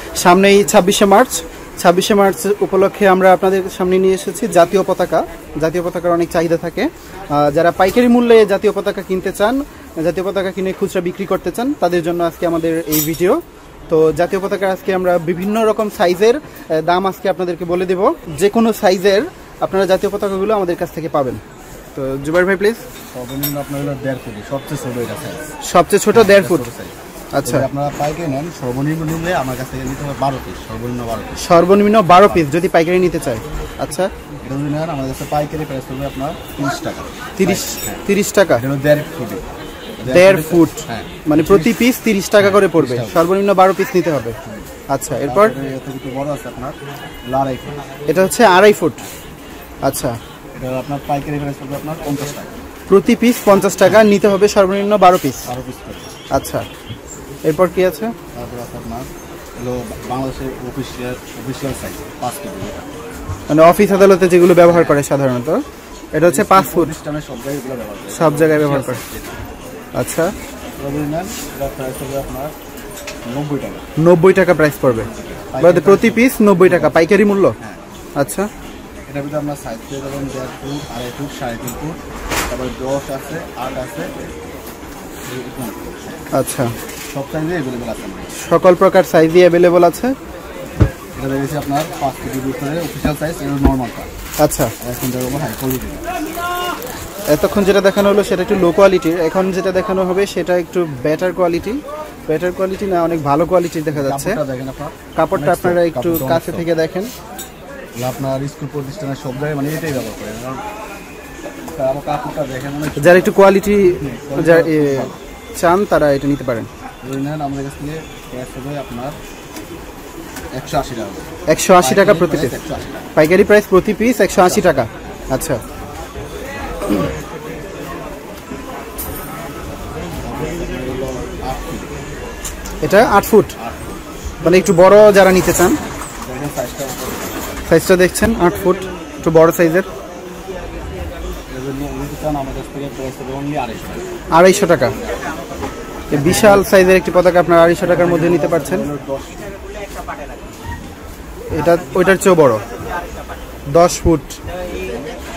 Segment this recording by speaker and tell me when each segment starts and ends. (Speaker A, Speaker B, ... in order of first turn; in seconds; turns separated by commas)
Speaker A: 0.2-21.4, Speaker A: 21.9-22.8, Speaker B: 23.1-25.5, Speaker A: 25.6-26.7, Speaker B: 26.1-32.5, Speaker A: 27.3-27.7, Speaker A: 31.4-34.1, Speaker B: 34.4-38.0, Speaker A: 37.4-38.6, Speaker B: 38.6-39.4, Speaker B: 40.0-41.8, Speaker A: 40.1-44.4, Speaker B: 42.4-43.3, Speaker A: 44.9-45.5, Speaker B: 45.2-47.8, Speaker A: 48.1-49.0, Speaker A: 49.8-50.2, Speaker B: 50.5-52.5, Speaker A: 52.9-55.5, Speaker B: 55.5-56.1, Speaker A: 56.3-56.7, Speaker A: 57.4-58.1, Speaker B: 58.3-62.9, Speaker A: 63.5-66.9, Speaker B: 64.6-65.0, Speaker B: 66.2-69.4, Speaker A: 68.1-69.0, Speaker A: 70.0-70.3, Speaker B: 70.8-72.5, Speaker B: 73.2-73.8, Speaker A: 74.0-75.1, Speaker B: 74.8-77.0, Speaker A: 75.6-77.5, Speaker A: 78.2-78.5, Speaker B: 79.1-84.2, Speaker B: 85.3-86.3, Speaker A: 86.3-86.7, Speaker B: 87.1-88.3, Speaker A: 88.3-90.1, Speaker B: 91.2-94.1, Speaker A: 94.4-94.7, Speaker B: 94.8-96.1, Speaker A: 97.3-104.4, Speaker B: 103.9-106.7, Speaker A: 105.2-107.1, Speaker B: 108.0-110.6, Speaker B: 111.7-113.4, Speaker A: 113.0-116.7, Speaker B: 113.9-115.2, Speaker B: 117.0-119.2, Speaker B: 120.5-121.2, Speaker A: 121.5-122.5, Speaker B: 121.8-123.1, Speaker A: 123.1-125.6, Speaker B: 124.4-124.9, Speaker B: 130.2-131.9, Speaker A: 132.8-133.6, Speaker B: 132.9-134.0, Speaker A: 134.4-135.8, Speaker B: 136.2-137.5, Speaker A: 137.7-139.9, Speaker B: 141.5-144.1, Speaker A: 144.3-145.0, Speaker B: 145.0-145.3, Speaker A: 146.1-148.9, Speaker B: 146.1-146.7, Speaker B: 147.8-149.5, Speaker A: 151.5-152.6, Speaker A: 153.7-154.4